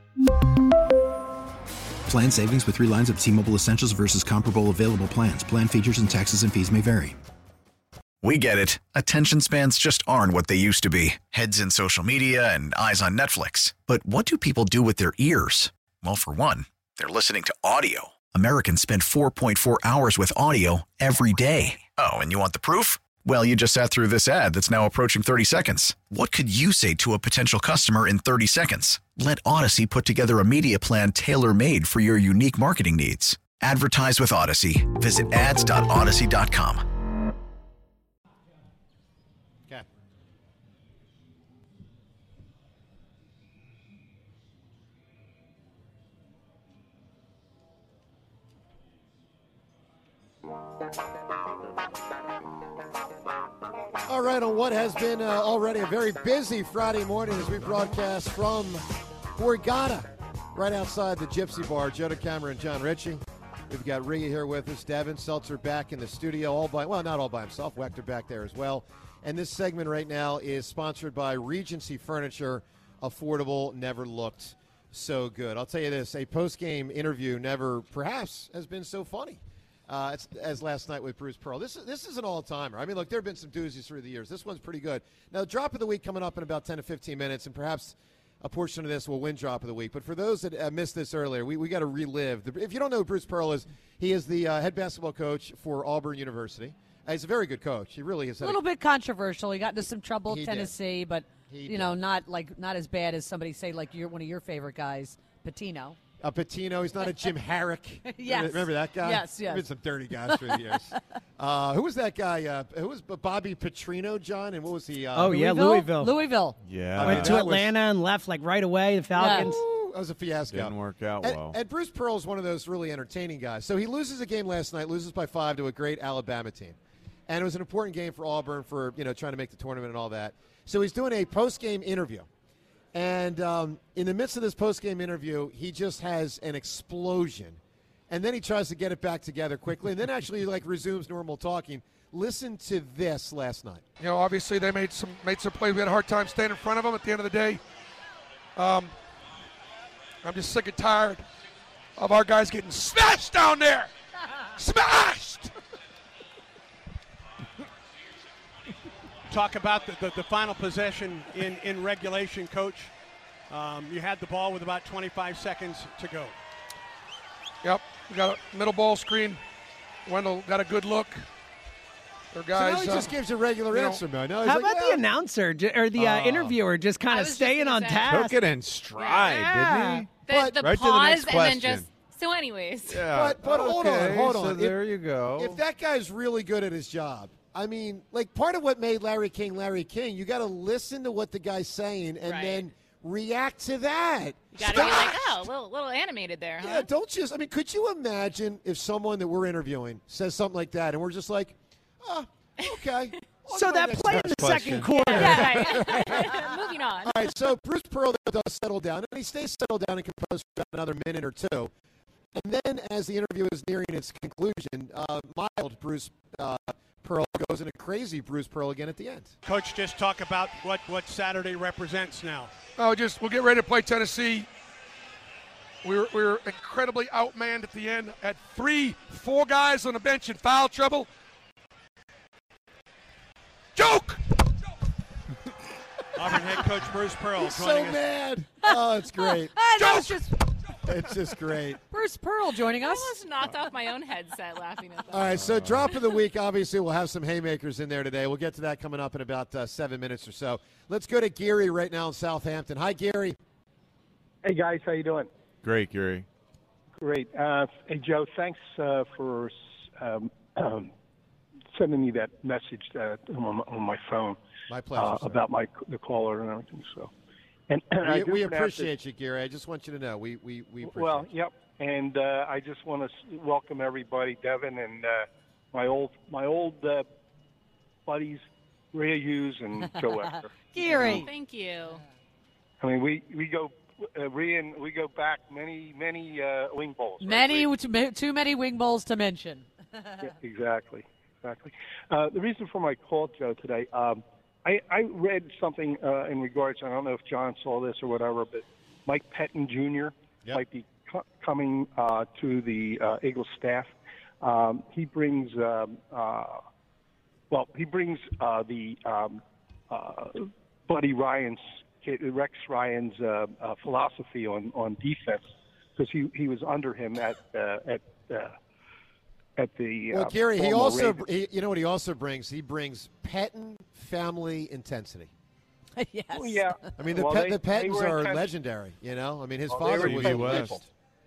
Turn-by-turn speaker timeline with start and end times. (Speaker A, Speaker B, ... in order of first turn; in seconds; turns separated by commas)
Speaker A: 2.1-7.2, Speaker B: 8.2-36.8, Speaker C: 54.0-98.6, Speaker D: 98.4-106.0, Speaker C: 100.3-100.7, Speaker C: 101.5-102.0, Speaker C: 106.2-115.5, Speaker D: 108.0-109.7, Speaker D: 110.2-110.9, Speaker E: 115.1-116.2, Speaker D: 115.3-116.6, Speaker F: 116.6-117.3, Speaker C: 117.0-117.7, Speaker E: 117.0-119.6, Speaker D: 119.1-119.5, Speaker C: 119.3-126.8, Speaker F: 120.5-121.6, Speaker C: 127.3-132.3, Speaker C: 132.9-137.6, Speaker C: 138.1-143.8, Speaker G: 144.0-147.6, Speaker G: 148.6-148.9, Speaker G: 150.2-151.2, Speaker G: 152.0-153.9, Speaker G: 154.6-155.5, Speaker H: 159.3-162.9, Speaker H: 163.5-166.3, Speaker G: 167.6-169.4, Speaker G: 170.1-171.2, Speaker G: 172.3-173.1, Speaker C: 172.5-175.0, Speaker G: 173.7-174.0, Speaker E: 174.4-178.4, Speaker C: 176.0-176.5, Speaker I: 177.1-178.2, Speaker F: 178.0-181.9, Speaker I: 178.9-179.3, Speaker E: 179.2-180.1, Speaker I: 180.3-183.1, Speaker C: 180.3-180.6, Speaker F: 182.9-185.6, Speaker C: 183.1-184.8, Speaker C: 185.3-195.5, Speaker I: 192.2-192.7, Speaker I: 194.5-196.9, Speaker C: 196.6-206.4, Speaker E: 203.5-205.6, Speaker F: 204.2-204.9, Speaker I: 204.9-207.3, Speaker D: 205.1-206.1, Speaker C: 207.0-211.7, Speaker C: 212.3-219.3, Speaker H: 219.4-222.5, Speaker G: 222.8-224.5, Speaker G: 225.8-231.1, Speaker G: 233.8-234.2, Speaker H: 236.2-238.0, Speaker C: 237.3-239.6, Speaker D: 239.4-240.4, Speaker G: 239.8-240.1, Speaker C: 240.8-241.8, Speaker D: 241.9-243.2, Speaker I: 242.8-245.4, Speaker C: 245.1-253.4, Speaker F: 245.4-245.8, Speaker J: 254.4-255.3, Speaker F: 255.6-256.3, Speaker J: 257.0-260.9, Speaker J: 261.7-264.4, Speaker C: 264.7-265.4, Speaker J: 264.9-267.1, Speaker J: 267.7-268.9, Speaker C: 268.0-271.3, Speaker J: 270.8-277.1, Speaker J: 278.1-281.2, Speaker D: 279.8-281.3, Speaker I: 280.9-282.0, Speaker J: 282.8-287.7, Speaker D: 287.2-290.3, Speaker J: 290.2-306.6, Speaker J: 307.5-318.6, Speaker J: 319.6-321.2, Speaker C: 320.1-325.3, Speaker D: 326.0-326.9, Speaker J: 326.3-328.5, Speaker C: 327.0-330.9, Speaker J: 329.7-330.8, Speaker F: 329.8-330.8